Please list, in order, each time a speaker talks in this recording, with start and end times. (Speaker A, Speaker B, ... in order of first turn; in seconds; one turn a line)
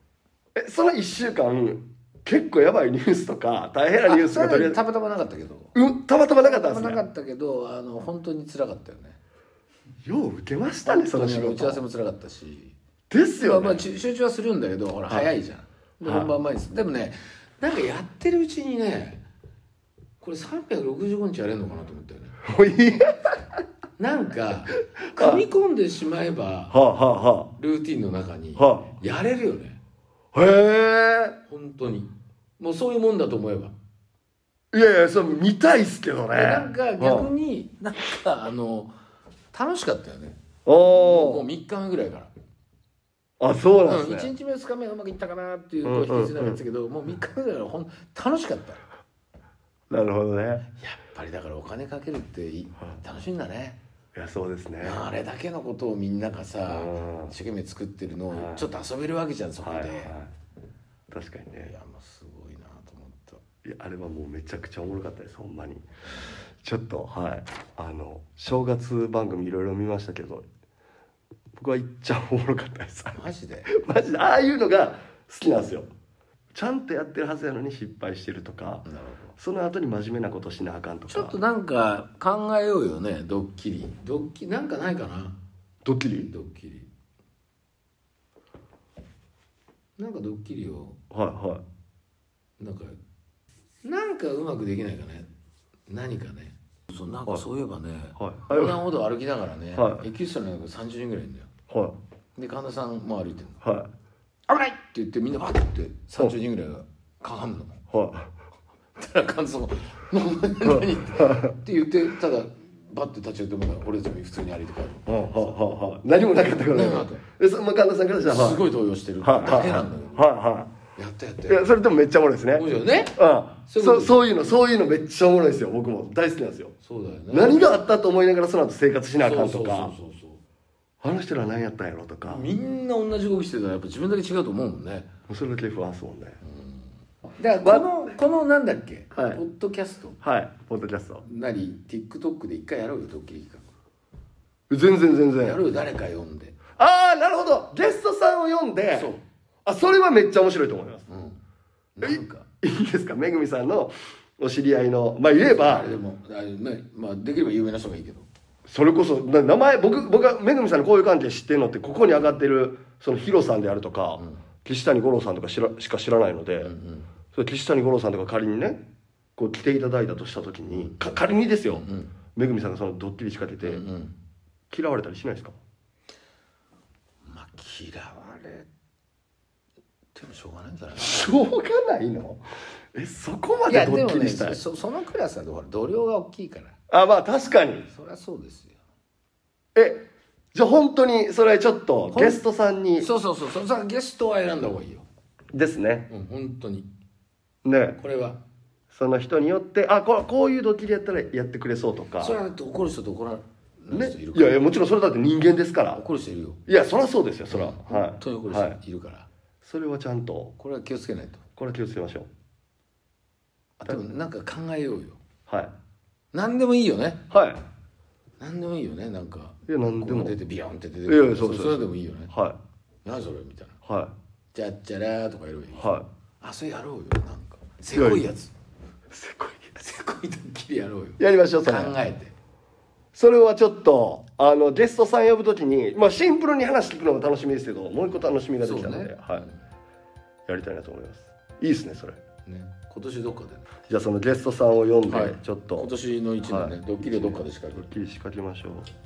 Speaker A: 0.6-4.8
Speaker B: 4.1-5.7
Speaker A: 5.8-7.0
Speaker B: 6.4-9.2
Speaker A: 10.1-11.8
Speaker B: 10.8-12.8
Speaker A: 13.1-13.8
Speaker B: 13.4-19.2
Speaker A: 16.0-16.3
Speaker B: 20.2-22.4
Speaker A: 22.5-23.4
Speaker B: 24.0-26.8
Speaker A: 25.2-25.5
Speaker A: 26.7-27.5
Speaker B: 27.6-29.8
Speaker A: 28.6-28.9
Speaker A: 30.3-31.4
Speaker B: 31.5-33.8
Speaker A: 34.7-37.3
Speaker B: 36.3-38.9
Speaker B: 39.5-42.3
Speaker A: 40.7-41.5
Speaker A: 43.4-44.3
Speaker B: 43.8-48.8
Speaker A: 45.8-46.6
Speaker A: 49.9-50.6
Speaker B: 50.8-53.8
Speaker A: 54.1-55.0
Speaker B: 54.8-60.2
Speaker A: 56.7-57.3
Speaker A: 58.3-58.7
Speaker A: 59.6-60.3
Speaker A: 61.1-61.7
Speaker B: 61.6-63.4
Speaker A: 63.6-65.9
Speaker A: 66.6-70.5
Speaker A: 71.6-75.9
Speaker B: 73.1-73.7
Speaker A: 76.5-78.9
Speaker B: 78.8-79.4
Speaker A: 79.4-81.4
Speaker B: 81.1-85.4
Speaker A: 85.8-86.3
Speaker B: 86.2-86.9
Speaker B: 90.0-91.0
Speaker A: 91.1-91.6
Speaker B: 92.6-93.0
Speaker B: 93.8-95.3
Speaker B: 95.9-101.5
Speaker A: 98.2-98.8
Speaker A: 99.7-100.0
Speaker A: 101.7-102.0
Speaker B: 102.4-103.6
Speaker A: 103.6-103.9
Speaker B: 104.5-107.8
Speaker A: 107.9-108.3
Speaker B: 109.0-115.6
Speaker A: 110.7-111.6
Speaker A: 115.1-118.6
Speaker B: 116.6-117.2
Speaker B: 118.3-120.3
Speaker A: 119.2-120.7
Speaker B: 121.0-121.8
Speaker A: 121.5-126.7
Speaker B: 122.5-124.2
Speaker B: 126.8-127.7
Speaker A: 127.3-129.9
Speaker B: 129.2-130.4
Speaker A: 131.0-132.5
Speaker B: 132.3-135.1
Speaker A: 135.3-136.4
Speaker B: 136.4-140.2
Speaker A: 137.6-138.0
Speaker A: 139.1-139.4
Speaker A: 140.2-141.2
Speaker B: 141.2-143.7
Speaker A: 144.7-145.6
Speaker B: 145.4-146.6
Speaker A: 146.8-149.1
Speaker B: 148.9-149.2
Speaker A: 149.7-151.1
Speaker B: 151.1-151.4
Speaker B: 151.9-152.5
Speaker A: 152.0-155.9
Speaker B: 155.4-158.3
Speaker A: 158.7-166.7
Speaker B: 164.2-164.4
Speaker B: 166.6-167.1
Speaker A: 167.3-168.8
Speaker A: 169.4-173.8
Speaker B: 170.7-172.1
Speaker B: 173.6-174.2
Speaker A: 174.7-175.6
Speaker B: 177.3-178.7
Speaker B: 180.1-181.3
Speaker A: 181.0-182.4
Speaker A: 182.9-184.6
Speaker B: 183.7-186.8
Speaker A: 186.9-187.9
Speaker B: 187.9-188.8
Speaker A: 189.8-193.1
Speaker B: 192.1-192.4
Speaker B: 193.0-195.1
Speaker A: 195.5-196.1
Speaker B: 196.1-196.9
Speaker A: 197.7-198.0
Speaker B: 198.0-198.4
Speaker A: 198.9-202.4
Speaker B: 202.2-204.6
Speaker A: 203.9-206.0
Speaker B: 205.9-206.6
Speaker A: 206.7-208.8
Speaker B: 207.5-209.3
Speaker A: 209.6-210.6
Speaker B: 210.6-211.4
Speaker A: 211.6-212.3
Speaker B: 213.8-215.2
Speaker A: 215.5-215.7
Speaker B: 216.3-217.2
Speaker A: 217.3-217.6
Speaker B: 218.4-222.3
Speaker A: 219.7-220.4
Speaker A: 221.1-222.6
Speaker B: 223.0-223.8
Speaker A: 223.8-224.1
Speaker B: 224.5-228.5
Speaker A: 225.8-226.1
Speaker A: 227.9-228.3
Speaker A: 229.1-229.8
Speaker B: 229.8-232.3
Speaker A: 231.2-231.9
Speaker A: 233.1-239.5
Speaker B: 238.6-239.6
Speaker A: 240.5-242.2
Speaker B: 242.5-243.7
Speaker A: 243.9-245.9
Speaker B: 245.1-247.9
Speaker A: 246.4-248.9